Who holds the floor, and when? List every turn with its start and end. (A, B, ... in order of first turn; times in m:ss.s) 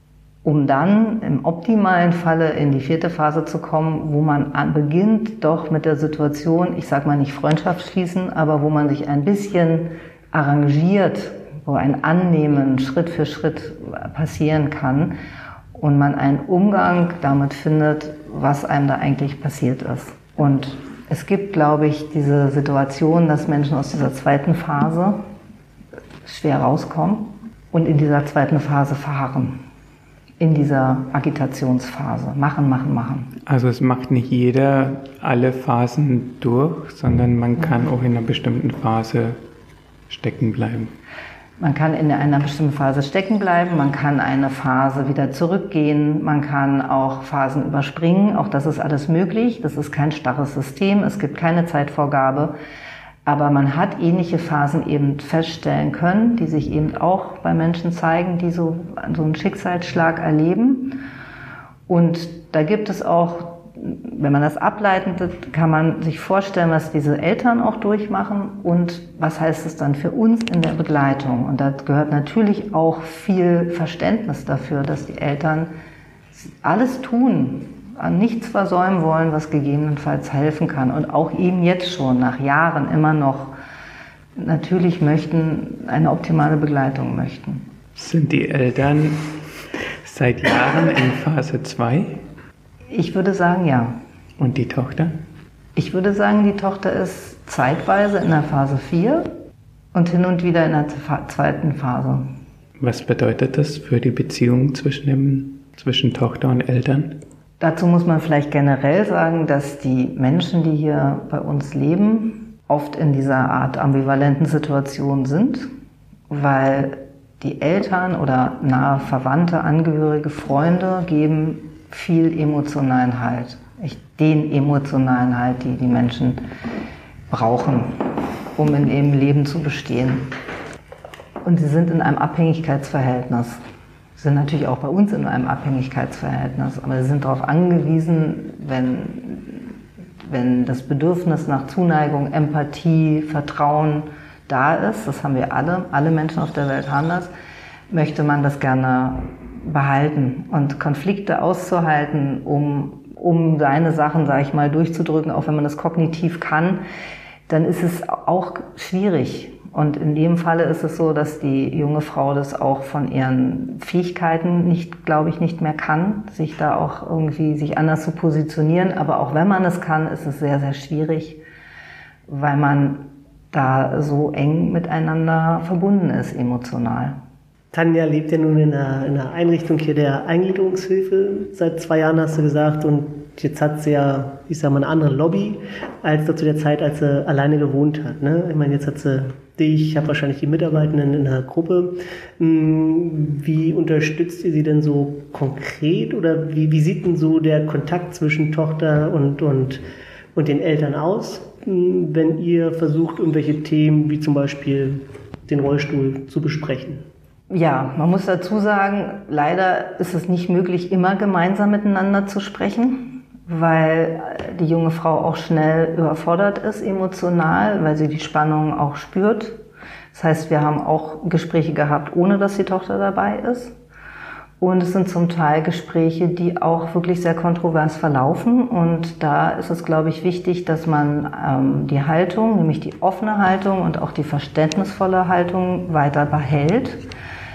0:00.4-0:15.2 A
0:15.8-0:25.2 A
0:26.2-0:29.6 A
0:30.4-0:33.4 A
0:33.5-0:39.4 B
0:40.1-0:40.9 B
0:41.6-0:52.5 A
0:53.3-1:01.0 A
1:01.9-1:15.7 A
1:16.3-1:23.5 A
1:24.4-1:27.7 A
1:28.0-1:29.3 B
1:30.0-1:32.2 B
1:32.9-1:34.0 A
1:34.4-1:35.1 B
1:35.8-1:39.3 A
1:39.9-1:42.2 A
1:42.8-1:47.2 B
1:47.6-1:55.7 A
1:56.3-2:06.4 A
2:07.3-2:08.0 A
2:08.6-2:10.3 A
2:11.4-2:13.6 A
2:14.2-2:19.7 A
2:20.3-2:27.3 A
2:27.9-2:36.8 A
2:37.5-2:51.4 A
2:52.3-2:57.2 A
2:57.7-3:19.8 C
3:20.4-3:27.0 C
3:27.5-3:39.6 A
3:40.1-3:43.7 A
3:44.6-3:57.0 A